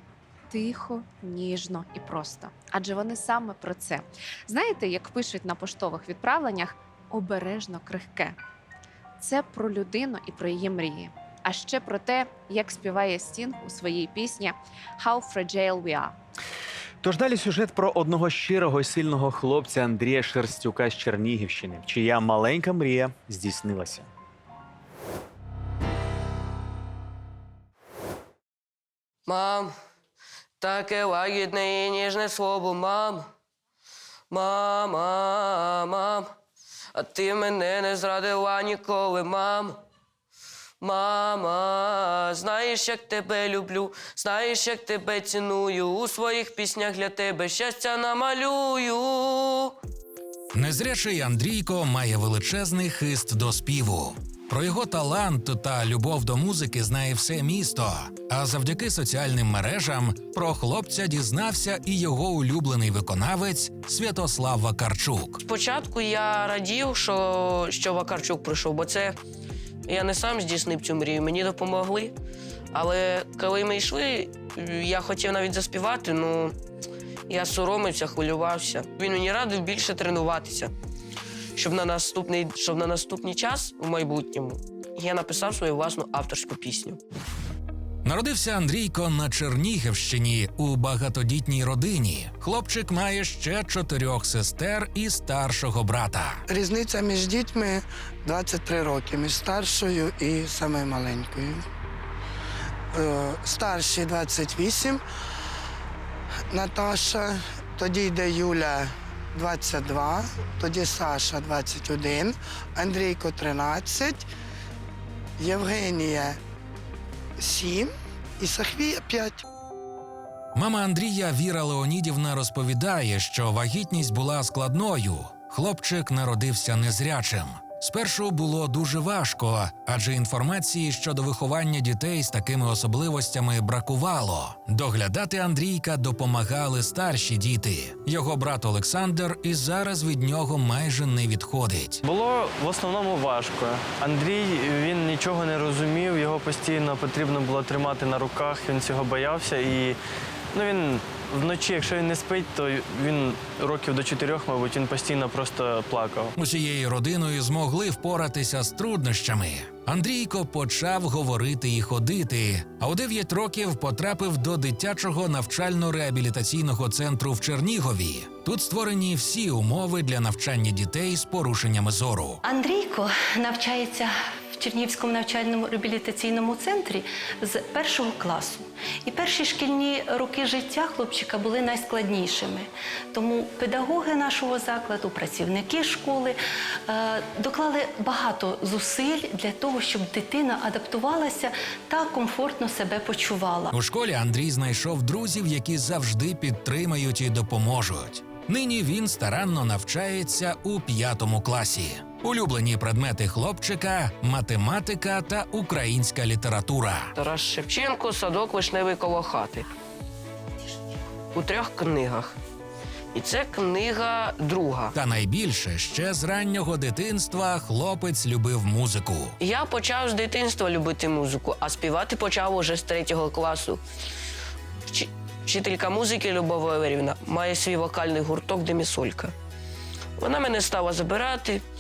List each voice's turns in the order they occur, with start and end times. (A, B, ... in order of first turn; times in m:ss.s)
0:00.5-0:08.4 A
0:09.2-0:16.1 A
0:17.0-0:24.1 B
0:29.3-0:29.7 C
0:30.6-0:33.3 C
0:34.3-0:36.3 C
0:37.0-0:39.8 C
0:40.8-0:49.7 C
0:50.5-1:05.4 D
1:05.4-1:09.2 C
1:09.9-1:12.1 C
1:12.7-1:16.6 C
1:17.3-1:20.7 C
1:21.6-1:27.0 C
1:28.0-1:36.4 D
1:36.5-1:41.6 E
1:42.9-1:45.0 E
1:46.5-1:54.2 E
1:55.4-1:56.4 E
1:57.4-1:59.4 E
2:00.6-2:22.0 D
2:22.0-2:30.0 F
2:30.5-2:36.3 F
2:36.4-2:52.4 D
2:52.4-3:13.7 G
3:13.7-3:27.1 D
3:27.1-3:29.7 C
3:31.3-3:32.3 C
3:33.1-3:34.9 C
3:34.9-3:39.4 D
3:39.4-3:43.8 C
3:44.9-3:49.3 C
3:50.2-3:51.6 C